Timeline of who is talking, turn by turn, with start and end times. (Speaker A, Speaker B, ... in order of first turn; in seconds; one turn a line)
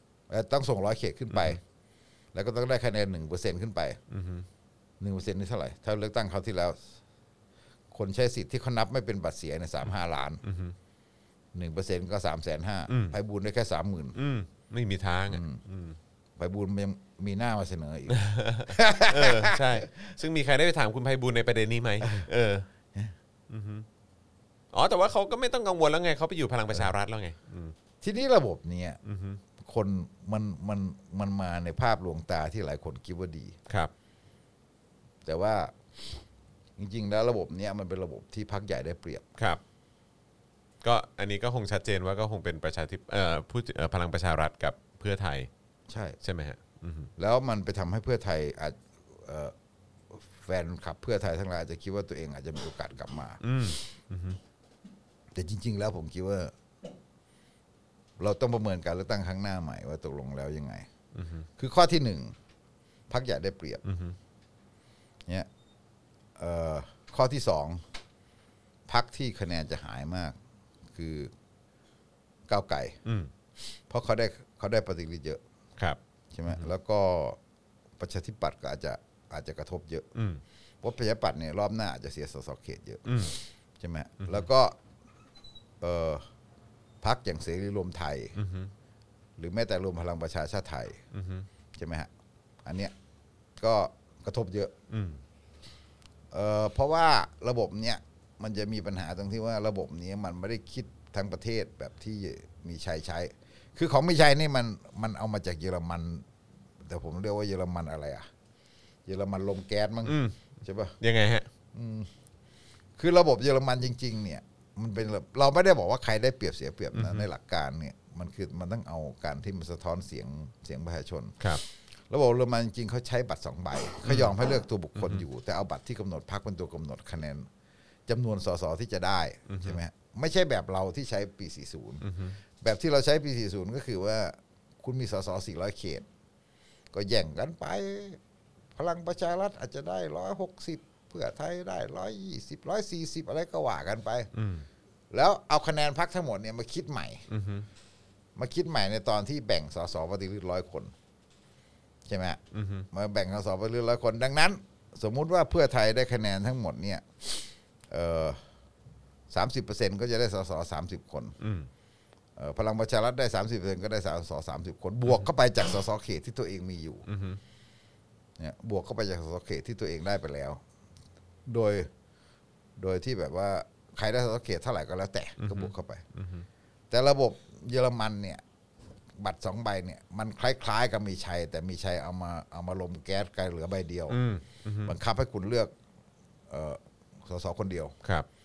Speaker A: 0.3-1.6
Speaker B: 1.3-1.6
Speaker A: 2.3-4.0
Speaker B: 4.1-4.5
Speaker A: 5.0-6.9
Speaker A: 7.9-10.4
Speaker B: 10.4-10.8
Speaker A: 11.6-14.2
Speaker B: 12.9-13.2
Speaker B: 14.2-16.0
Speaker A: 15.3-15.6
Speaker A: 16.4-20.2
Speaker B: 18.1-22.7
Speaker A: 22.0-22.3
Speaker B: 23.5-23.9
Speaker B: 24.7-27.8
Speaker A: 28.0-29.0
Speaker B: 29.0-29.4
Speaker A: 29.6-33.6
Speaker A: 35.3-35.8
Speaker A: 36.8-39.3
Speaker B: 39.4-39.6
Speaker B: 40.8-45.5
Speaker A: 45.9-46.2
Speaker B: 46.2-47.1
Speaker A: 47.2-49.5
Speaker A: 50.1-53.4
Speaker B: 53.4-54.4
Speaker A: 55.4-56.5
Speaker A: 58.2-60.9
Speaker B: 61.1-61.5
Speaker A: 61.6-62.4
Speaker A: 63.1-63.8
Speaker B: 63.8-64.2
Speaker A: 66.4-67.8
Speaker A: 68.9-70.3
Speaker A: 71.0-71.3
Speaker A: 72.5-73.0
Speaker B: 73.0-73.3
Speaker A: 73.9-75.4
Speaker B: 75.8-76.7
Speaker A: 76.3-77.4
Speaker A: 78.0-80.1
Speaker B: 80.2-80.4
Speaker A: 80.8-84.8
Speaker B: 83.0-83.3
Speaker A: 85.8-86.2
Speaker A: 87.0-88.4
Speaker B: 88.4-88.7
Speaker A: 89.4-91.0
Speaker B: 91.1-91.5
Speaker A: 91.8-92.1
Speaker A: 92.7-92.9
Speaker A: 93.6-94.7
Speaker B: 94.9-95.2
Speaker A: 96.3-106.3
Speaker A: 106.8-108.3
Speaker A: 109.1-111.0
Speaker B: 110.0-110.4
Speaker B: 111.0-111.5
Speaker A: 111.7-112.1
Speaker A: 113.0-121.4
Speaker B: 116.9-117.3
Speaker A: 122.1-127.5
Speaker B: 124.0-124.3
Speaker B: 125.0-125.3
Speaker A: 128.1-132.1
Speaker B: 129.5-129.8
Speaker B: 132.0-132.4
Speaker A: 132.6-136.1
Speaker A: 136.9-138.2
Speaker A: 138.8-144.3
Speaker B: 144.3-144.7
Speaker A: 145.1-147.2
Speaker B: 147.3-147.7
Speaker A: 148.4-150.9
Speaker A: 152.1-152.4
Speaker B: 152.5-152.9
Speaker A: 152.9-158.4
Speaker A: 159.3-161.4
Speaker B: 161.4-161.7
Speaker A: 162.4-167.1
Speaker B: 167.1-167.4
Speaker A: 168.4-170.6
Speaker A: 171.5-171.9
Speaker A: 172.8-176.0
Speaker B: 175.4-176.5
Speaker A: 176.9-178.4
Speaker A: 179.2-184.2
Speaker B: 184.1-184.9
Speaker A: 184.8-185.7
Speaker A: 186.5-187.9